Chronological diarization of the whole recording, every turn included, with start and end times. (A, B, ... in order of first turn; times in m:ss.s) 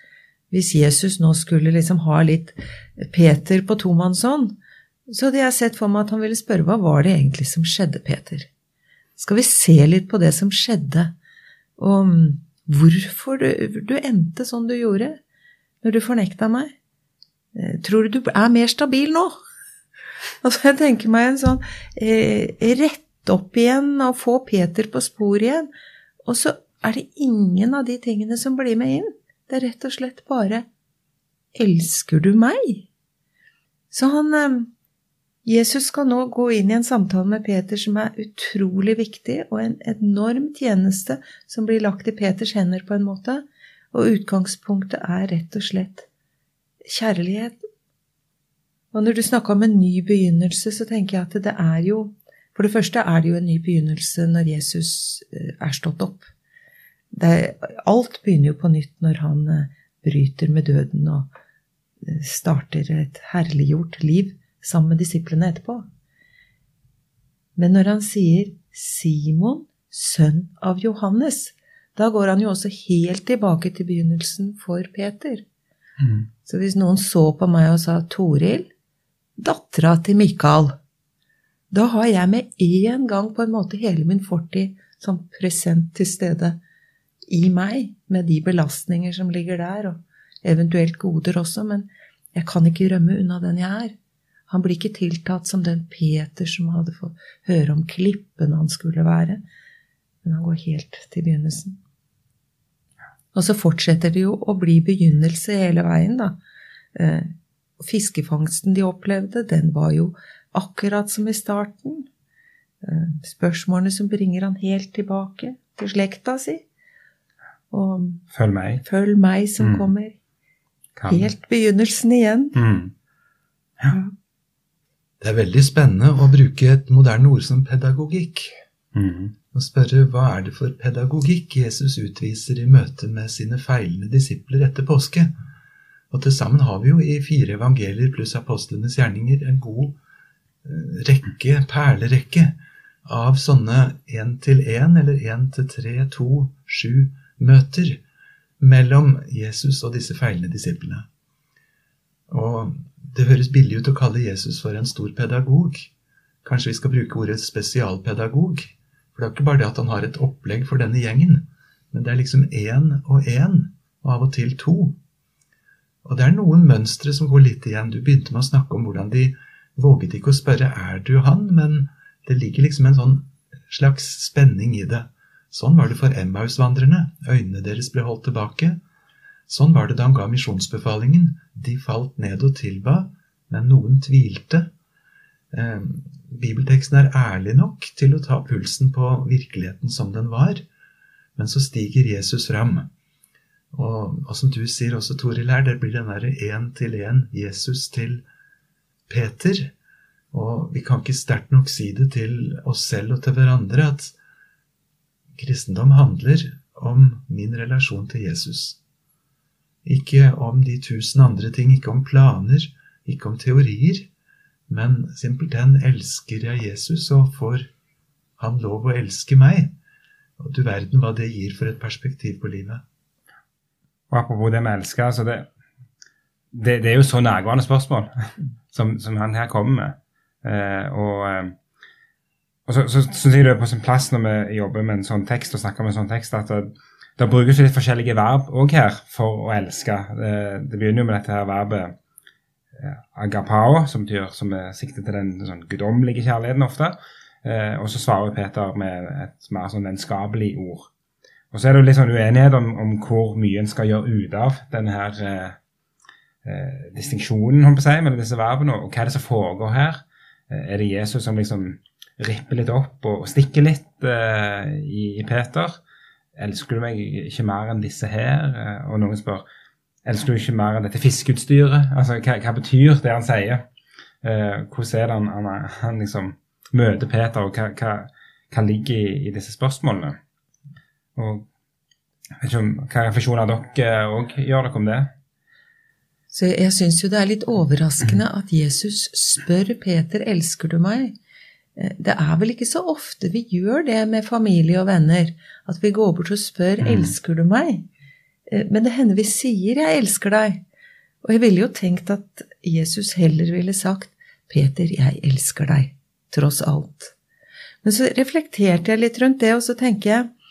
0:00.5-0:04.6 A
0:05.1-0:08.5 A
0:09.2-0:11.1 A
0:11.8-0:15.2 A
0:15.8-0:16.7 A
0:17.5-0:19.3 A
0:20.4-0:25.7 A
0:26.2-0:30.6 A
0:31.5-0:32.9 A
0:33.9-0:34.7 A
0:35.4-0:46.1 A
0:46.8-0:47.6 A
0:48.9-0:56.3 A
0:57.1-1:01.3 A
1:02.0-1:05.9 A
1:07.6-1:15.4 A
1:16.0-1:16.3 B
1:16.4-1:18.7 A
1:19.4-1:20.8 A
1:21.7-1:26.6 A
1:27.3-1:33.9 A
1:34.5-1:39.4 A
1:40.2-1:41.8 A
1:43.3-1:46.4 A
1:46.9-1:52.1 A
1:52.8-1:56.6 A
1:57.7-1:58.2 A
1:58.3-1:58.8 B
1:58.8-2:00.2 A
1:59.6-1:59.9 B
2:01.0-2:01.3 B
2:01.1-2:02.6 A
2:02.5-2:02.9 B
2:05.2-2:08.5 C
2:08.9-2:09.3 B
2:09.5-2:15.3 C
2:16.1-2:20.0 C
2:20.6-2:28.0 C
2:28.6-2:31.1 C
2:32.3-2:35.9 C
2:36.4-2:45.0 C
2:46.0-2:58.8 C
2:59.5-3:04.7 C
3:05.5-3:10.6 C
3:11.4-3:12.9 C
3:13.7-3:18.2 C
3:19.1-3:19.7 C
3:20.3-3:24.1 C
3:25.4-3:28.8 C
3:29.8-3:34.1 C
3:34.7-3:37.7 C
3:38.4-3:39.7 C
3:40.4-3:42.8 C
3:44.1-3:45.5 B
3:46.5-3:51.5 B
3:52.7-4:01.9 B
4:02.8-4:10.9 B
4:11.5-4:15.6 B
4:16.4-4:25.8 B
4:26.4-4:29.4 B
4:30.0-4:33.6 B
4:34.2-4:40.2 B
4:41.2-4:41.5 B
4:42.4-4:45.1 B
4:46.3-4:51.2 A
4:51.8-4:57.9 A
4:56.8-4:57.1 B
4:58.5-5:00.6 A
5:01.2-5:07.1 A
5:07.8-5:10.3 A